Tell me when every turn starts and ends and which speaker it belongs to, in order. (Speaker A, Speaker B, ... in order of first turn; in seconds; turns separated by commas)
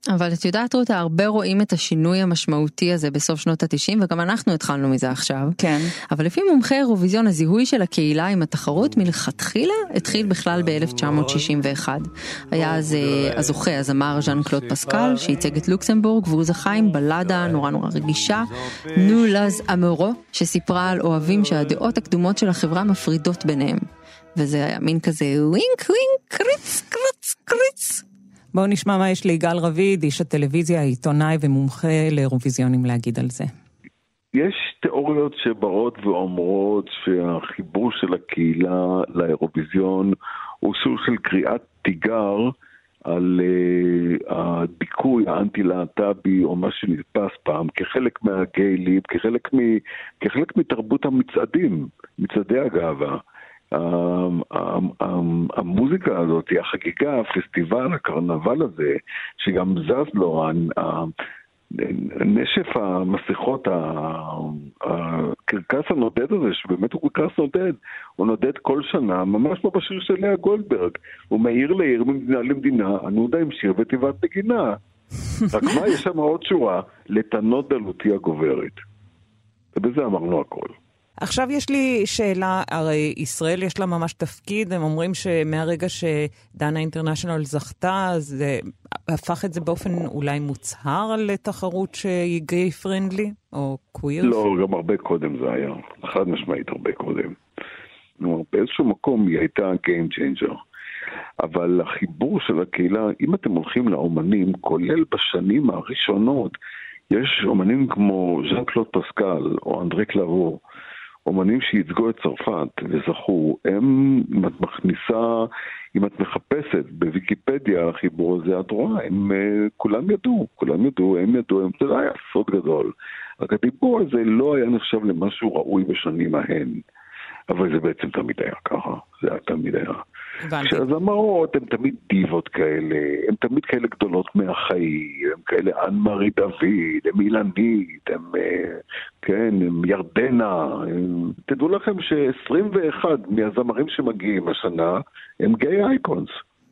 Speaker A: 0.1-5.6, Speaker B: 5.6-5.9, Speaker A: 6.1-28.0, Speaker B: 28.5-33.5, Speaker C: 34.3-42.5, Speaker C: 43.1-53.2, Speaker C: 53.7-61.1, Speaker C: 61.7-74.8, Speaker C: 75.5-78.8, Speaker C: 79.8-80.8, Speaker B: 81.2-94.4, Speaker C: 94.2-97.4, Speaker C: 98.2-100.5, Speaker C: 101.4-106.5, Speaker C: 107.1-110.6, Speaker C: 111.2-126.8, Speaker C: 127.5-130.0, Speaker B: 130.4-130.9, Speaker C: 130.6-146.3